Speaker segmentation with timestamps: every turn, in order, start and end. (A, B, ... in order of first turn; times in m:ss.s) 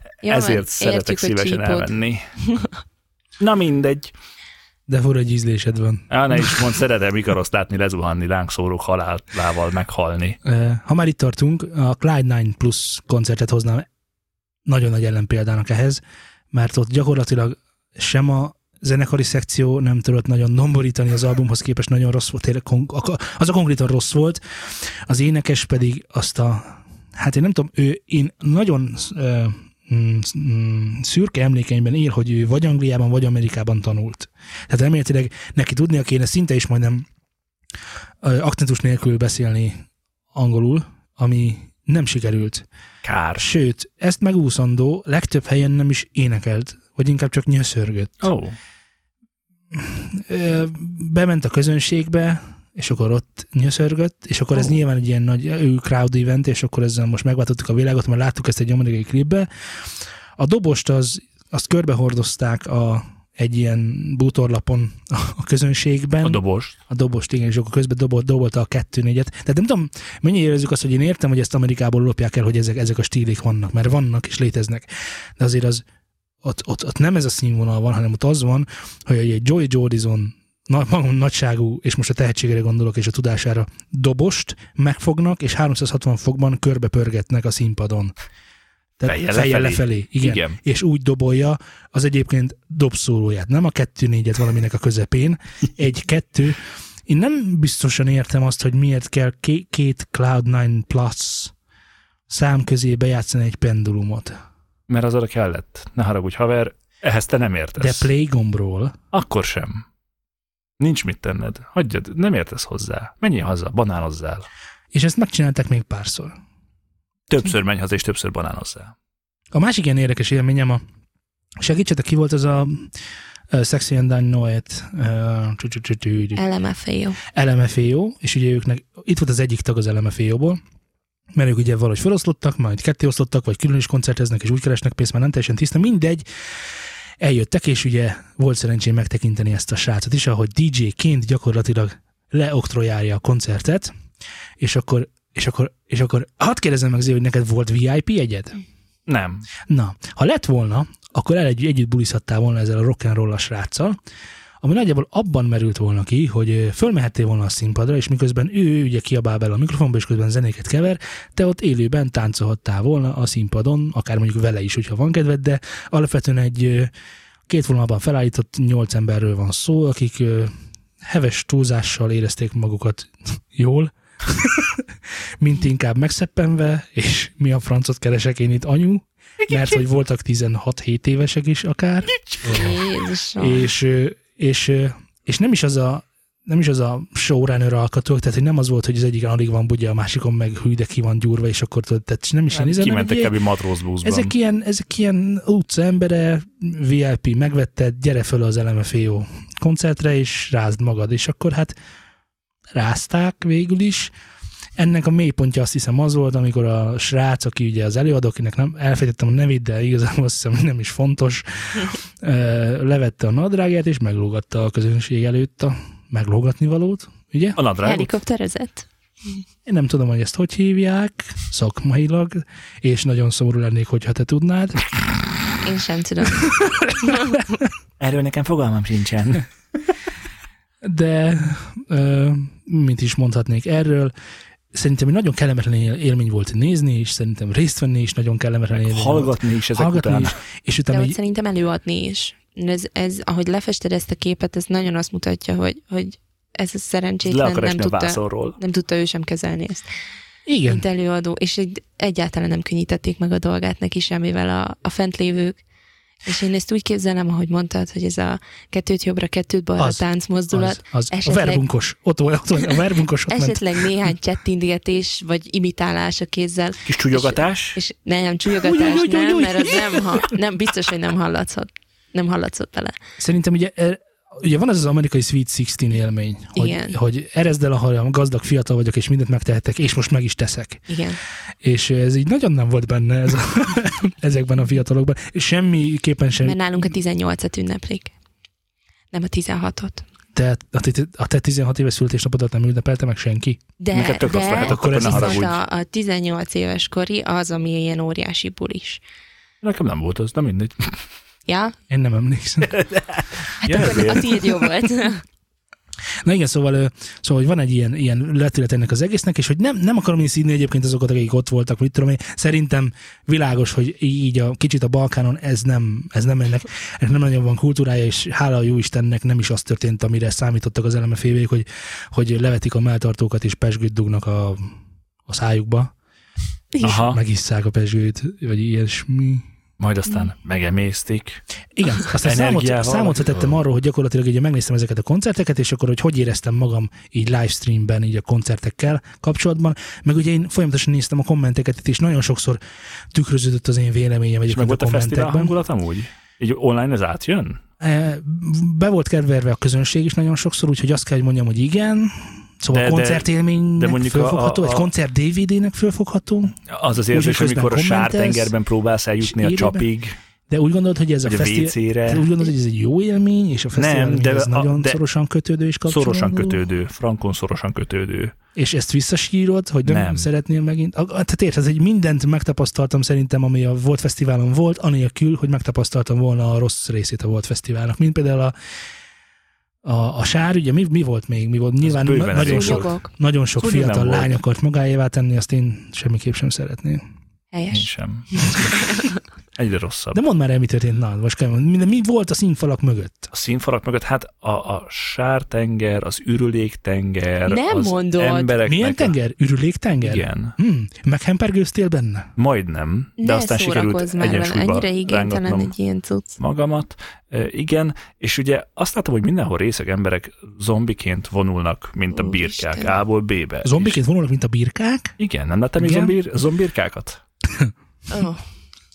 0:00.2-0:02.2 A
0:00.2-0:01.9 B
0:03.4-0:04.1 A
0:04.9-0:06.6 C
0:06.1-0:10.4 A
0:10.4-0:13.8 C
0:14.6-0:16.0 C
0:16.5-0:37.0 C
0:38.2-0:42.6 C
0:43.0-0:43.4 A
0:43.4-0:48.3 C
0:48.2-0:48.5 A
0:49.7-0:59.5 C
1:00.4-1:15.8 C
1:06.2-1:06.7 A
1:16.4-1:28.1 C
1:29.0-1:41.5 C
1:29.0-1:30.6 A
1:42.3-1:44.4 C
1:44.9-1:48.1 A
1:47.8-1:49.0 C
1:49.1-1:49.8 A
1:50.8-1:54.5 A
1:54.9-1:56.3 C
1:57.3-1:58.9 A
1:59.5-2:00.8 C
2:01.6-2:02.9 C
2:03.5-2:06.4 C
2:06.3-2:07.2 B
2:07.3-2:10.6 C
2:11.3-2:16.2 C
2:17.2-2:23.9 C
2:24.6-2:28.6 C
2:29.1-2:29.4 A
2:29.7-2:34.0 C
2:34.6-2:46.9 C
2:47.5-3:02.8 C
3:02.5-3:03.7 B
3:03.4-3:13.3 C
3:12.5-3:14.3 A
3:14.0-3:21.7 C
3:22.7-3:24.1 C
3:24.8-3:37.6 C
3:37.6-3:38.1 A
3:37.8-3:38.8 B
3:39.6-3:44.8 C
3:45.6-3:47.4 B
3:48.0-3:49.4 A
3:50.8-3:54.1 C
3:54.7-4:01.2 C
3:58.7-4:00.3 A
4:00.9-4:09.9 B
4:07.2-4:08.6 A
4:10.4-4:10.8 C
4:10.6-4:15.6 B
4:16.2-4:21.6 B
4:19.8-4:23.8 C
4:23.3-4:33.0 B
4:26.8-4:27.8 A
4:28.6-4:30.2 C
4:33.2-4:40.9 C
4:36.5-4:37.0 B
4:40.9-4:41.2 B
4:41.6-4:46.6 C
4:46.4-4:48.1 B
4:49.1-4:50.0 B
4:50.3-4:53.6 C
4:53.8-4:59.0 B
4:53.9-4:55.6 A
4:54.6-4:55.5 C
4:59.6-5:01.0 A
5:01.4-5:01.7 B
5:01.9-5:02.8 C
5:02.7-5:04.5 A
5:03.6-5:05.2 B
5:06.2-5:25.9 C
5:26.8-5:27.2 A
5:26.8-5:29.4 C
5:29.8-5:31.4 A
5:31.8-5:42.6 C
5:32.1-5:33.6 A
5:43.1-5:45.5 C
5:44.5-5:47.6 A
5:47.8-5:56.6 C
5:52.7-5:54.9 A
5:56.7-6:00.2 A
5:57.1-5:58.5 C
5:59.2-5:59.8 C
6:00.5-6:06.6 C
6:01.2-6:02.3 A
6:03.7-6:05.0 A
6:05.9-6:08.3 A
6:08.6-6:18.5 C
6:09.8-6:10.3 A
6:19.8-6:27.0 C
6:21.8-6:22.9 A
6:22.4-6:23.1 B
6:23.6-6:24.3 A
6:27.5-6:29.1 B
6:27.7-6:29.0 A
6:29.6-6:30.2 A
6:30.1-6:33.3 C
6:33.3-6:39.1 A
6:37.4-6:38.5 B
6:38.6-6:42.3 C
6:40.0-6:40.5 A
6:42.4-6:45.7 A
6:43.2-6:46.4 B
6:46.4-6:54.0 A
6:52.1-6:52.9 B
6:53.6-6:55.2 C
6:55.2-6:57.2 A
6:55.8-6:56.1 C
6:58.1-6:58.4 B